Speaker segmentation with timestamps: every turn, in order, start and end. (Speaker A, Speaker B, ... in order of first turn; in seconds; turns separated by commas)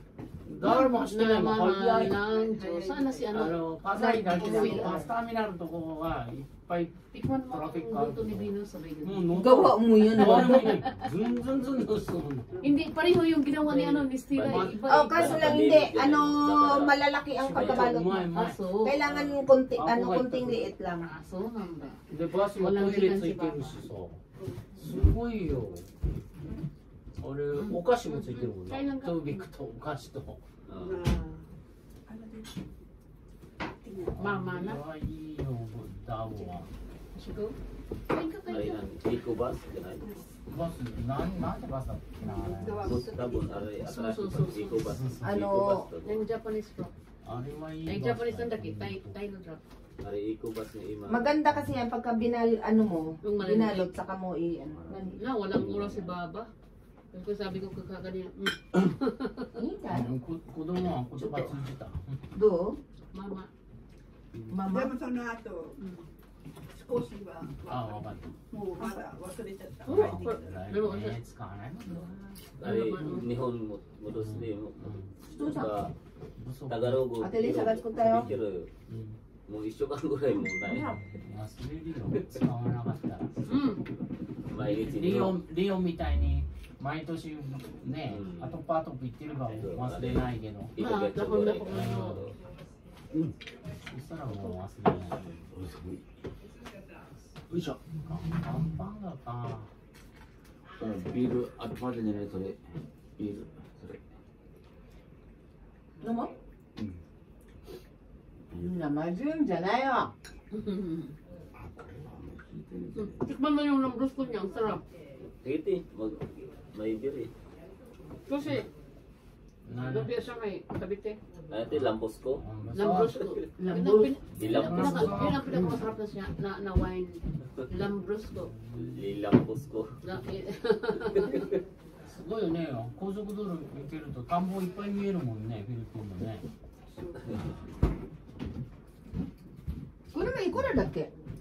Speaker A: 0.5-2.2, Speaker B: 0.6-5.0, Speaker C: 1.9-3.5, Speaker A: 3.3-8.5, Speaker D: 4.0-5.1, Speaker B: 7.1-9.4, Speaker A: 9.0-12.6, Speaker D: 9.3-10.7, Speaker B: 10.4-11.1, Speaker B: 12.6-15.4, Speaker A: 13.7-15.3, Speaker E: 14.3-18.0, Speaker D: 14.9-18.2, Speaker A: 17.5-18.6, Speaker B: 18.2-19.0, Speaker D: 18.8-21.1, Speaker E: 19.0-19.4, Speaker A: 19.8-20.7, Speaker B: 21.0-22.0, Speaker A: 22.1-24.2, Speaker B: 22.5-23.8, Speaker C: 24.4-24.8, Speaker A: 24.8-25.9, Speaker A: 27.2-30.4, Speaker B: 27.6-29.5, Speaker E: 30.7-31.1, Speaker C: 30.8-31.5, Speaker C: 32.1-32.7, Speaker C: 33.8-34.2, Speaker A: 34.1-36.7, Speaker B: 34.2-34.8, Speaker B: 37.2-37.6, Speaker B: 38.1-38.8, Speaker E: 38.5-40.1, Speaker C: 40.0-40.3, Speaker A: 40.5-43.0, Speaker C: 42.2-43.8, Speaker E: 42.8-46.2, Speaker B: 43.8-45.0, Speaker A: 44.9-45.4, Speaker D: 45.2-45.9, Speaker B: 46.0-46.9, Speaker A: 47.3-49.2, Speaker B: 47.9-49.6, Speaker E: 50.0-51.3, Speaker D: 51.1-55.2, Speaker B: 53.2-53.9, Speaker B: 55.2-56.5, Speaker E: 55.5-56.1, Speaker B: 57.1-59.5, Speaker D: 59.6-60.1, Speaker A: 59.9-62.2, Speaker D: 61.1-61.5, Speaker D: 62.3-62.8, Speaker B: 63.1-63.5, Speaker D: 64.5-64.9, Speaker C: 64.6-65.8, Speaker B: 65.8-66.0, Speaker C: 66.7-70.4, Speaker A: 67.7-68.3, Speaker B: 69.9-71.2, Speaker A: 69.9-72.7, Speaker E: 72.6-75.9, Speaker B: 72.6-73.3, Speaker A: 74.1-75.1, Speaker D: 75.3-75.8, Speaker A: 76.4-77.0, Speaker E: 76.7-78.7, Speaker D: 77.2-78.3, Speaker A: 78.1-78.3, Speaker A: 78.9-79.2, Speaker E: 79.5-81.0, Speaker A: 80.9-83.7, Speaker B: 83.5-83.8, Speaker E: 84.5-85.4, Speaker A: 84.6-90.7, Speaker E: 88.1-88.5, Speaker E: 89.6-90.2, Speaker E: 90.8-92.3, Speaker B: 90.8-92.2, Speaker A: 91.6-92.2, Speaker A: 93.9-95.2, Speaker E: 95.2-95.5, Speaker F: 95.5-96.0, Speaker F: 97.5-97.8, Speaker A: 98.1-99.7, Speaker F: 100.8-102.6, Speaker F: 103.2-104.0, Speaker D: 106.0-106.3, Speaker D: 108.5-110.1, Speaker B: 110.5-111.2, Speaker F: 111.6-113.2, Speaker B: 113.0-114.8, Speaker E: 115.4-117.3, Speaker B: 118.3-118.7, Speaker A: 119.7-120.1, Speaker B: 119.8-121.2, Speaker E: 121.5-122.4, Speaker A: 121.7-123.2, Speaker B: 122.7-128.5, Speaker D: 123.6-124.2, Speaker E: 124.4-125.3, Speaker A: 124.4-125.5, Speaker D: 125.5-125.8, Speaker A: 128.5-129.0, Speaker E: 128.9-130.0, Speaker B: 130.0-131.6, Speaker A: 132.1-136.5, Speaker C: 137.0-137.2, Speaker D: 140.1-141.1